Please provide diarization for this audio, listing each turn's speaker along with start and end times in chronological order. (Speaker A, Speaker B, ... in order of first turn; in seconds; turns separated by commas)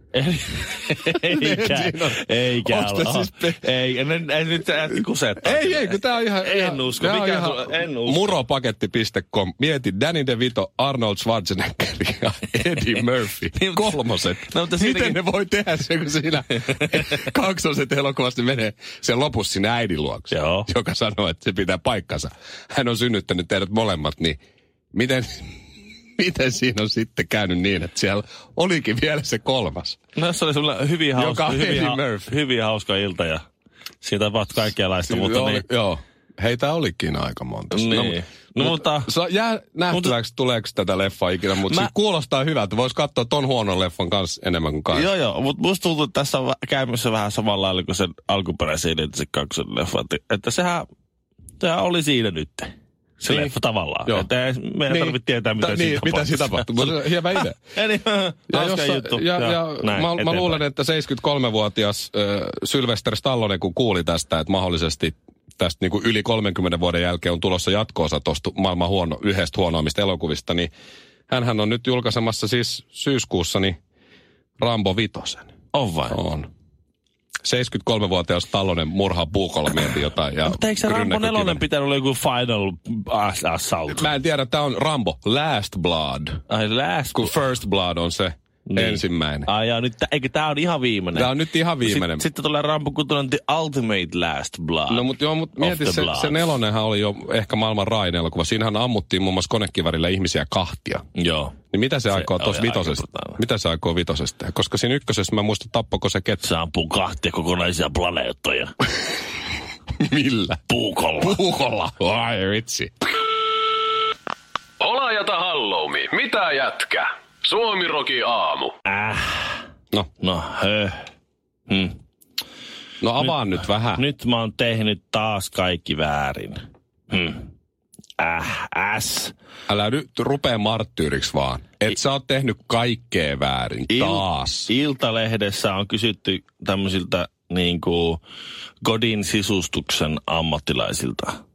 Speaker A: 0.1-8.3, Speaker B: 1.1-3.6, Speaker B: 5.4-24.4, Speaker A: 13.5-15.2, Speaker A: 20.3-20.7, Speaker B: 24.9-25.6, Speaker B: 26.2-30.0, Speaker A: 30.2-33.5, Speaker B: 31.2-32.3, Speaker A: 34.0-35.6, Speaker B: 35.1-45.1, Speaker A: 37.7-39.1, Speaker A: 44.9-50.9, Speaker A: 51.6-60.6, Speaker B: 53.3-53.5, Speaker B: 54.9-57.6, Speaker B: 58.5-70.7, Speaker B: 71.3-73.8, Speaker B: 74.6-75.5, Speaker A: 75.7-76.2, Speaker B: 76.1-76.5, Speaker B: 77.4-81.6, Speaker A: 80.5-84.1, Speaker B: 83.9-86.4, Speaker A: 86.5-87.3, Speaker B: 87.2-89.5, Speaker A: 88.7-95.1, Speaker B: 91.2-92.2, Speaker B: 94.9-101.0, Speaker A: 95.6-96.5, Speaker A: 101.2-101.6, Speaker B: 101.7-106.4, Speaker A: 102.1-103.4, Speaker A: 106.4-108.8, Speaker B: 110.0-110.6, Speaker A: 110.7-111.4, Speaker B: 111.2-112.9, Speaker C: 114.8-118.7, Speaker A: 118.8-119.6, Speaker A: 120.2-121.1, Speaker A: 121.7-122.0, Speaker B: 123.0-124.0, Speaker A: 124.0-127.5, Speaker A: 128.2-129.3, Speaker B: 129.7-134.7, Speaker A: 133.9-138.2, Speaker A: 138.8-141.4